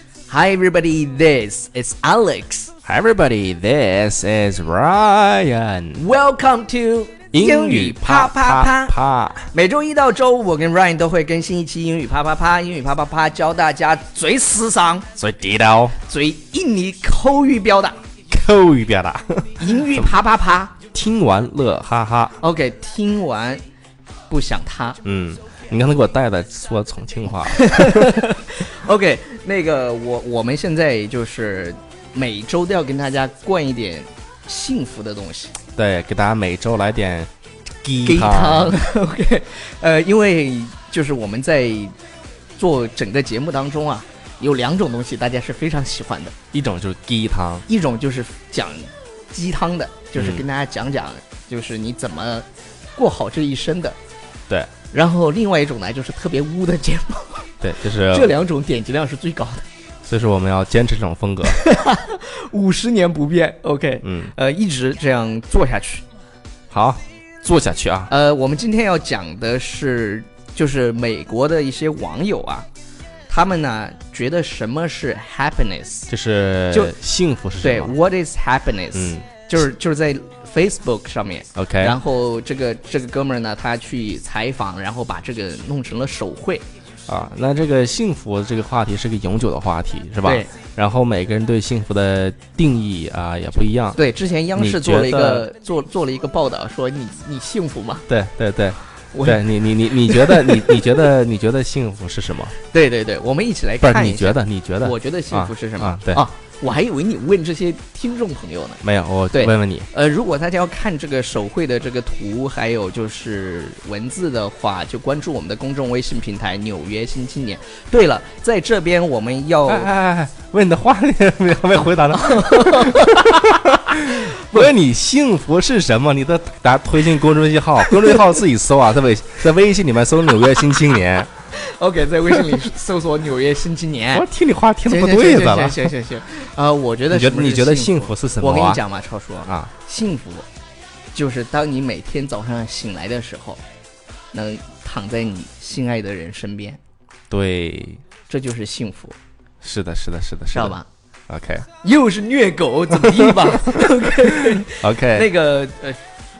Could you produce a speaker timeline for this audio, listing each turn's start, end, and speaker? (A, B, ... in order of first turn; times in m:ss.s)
0:00.3-0:02.7 A
0:02.8-0:06.0 B
0:05.9-0:08.9 A
0:07.3-0:09.5 B
0:09.5-0:15.1 A
0:15.2-0:16.0 B
0:16.0-0:18.0 A
0:18.3-0:20.1 B
0:19.6-0:20.7 A
0:20.9-0:22.4 B
0:22.4-0:23.6 A
0:24.3-0:25.0 A
0:25.0-0:28.0 B
0:27.5-0:35.5 A
0:35.8-0:37.3 B
0:37.8-0:38.8 B
0:38.0-0:41.9 A
0:42.6-0:46.3 A
0:46.5-0:47.6 B
0:47.7-0:54.0 A
0:50.2-0:50.4 B
0:54.9-0:57.5 A
0:57.6-0:58.3 B
0:58.0-0:59.6 A
1:00.0-1:01.6 B
1:01.4-1:06.0 A
1:04.0-1:04.3 B
1:06.7-1:08.1 B
1:08.1-1:12.7 A
1:13.3-1:16.1 A
1:16.1-1:17.9 B
1:16.7-1:16.9 A
1:17.6-1:26.6 A
1:18.9-1:19.3 B
1:21.5-1:22.0 B
1:27.1-1:34.0 B
1:30.2-1:30.5 A
1:34.0-1:38.1 A
1:34.6-1:35.4 B
1:38.1-1:42.5 B
1:39.1-1:40.8 A
1:42.7-1:48.8 A
1:43.8-1:46.2 B
1:48.8-1:49.9 B
1:49.3-1:59.9 A
1:59.7-2:11.3 B
2:02.0-2:04.7 A
2:07.9-2:08.2 A
2:11.5-2:14.3 A
2:14.1-2:15.9 B
2:14.8-2:20.4 A
2:17.1-2:18.8 B
2:19.4-2:19.7 B
2:21.1-2:23.6 A
2:24.3-2:26.8 A
2:27.3-2:28.0 B
2:28.3-2:29.2 A
2:29.6-2:30.8 B
2:30.5-2:30.8 A
2:31.3-2:31.6 B
2:31.8-2:36.0 A
2:33.2-2:33.8 B
2:34.6-2:35.3 B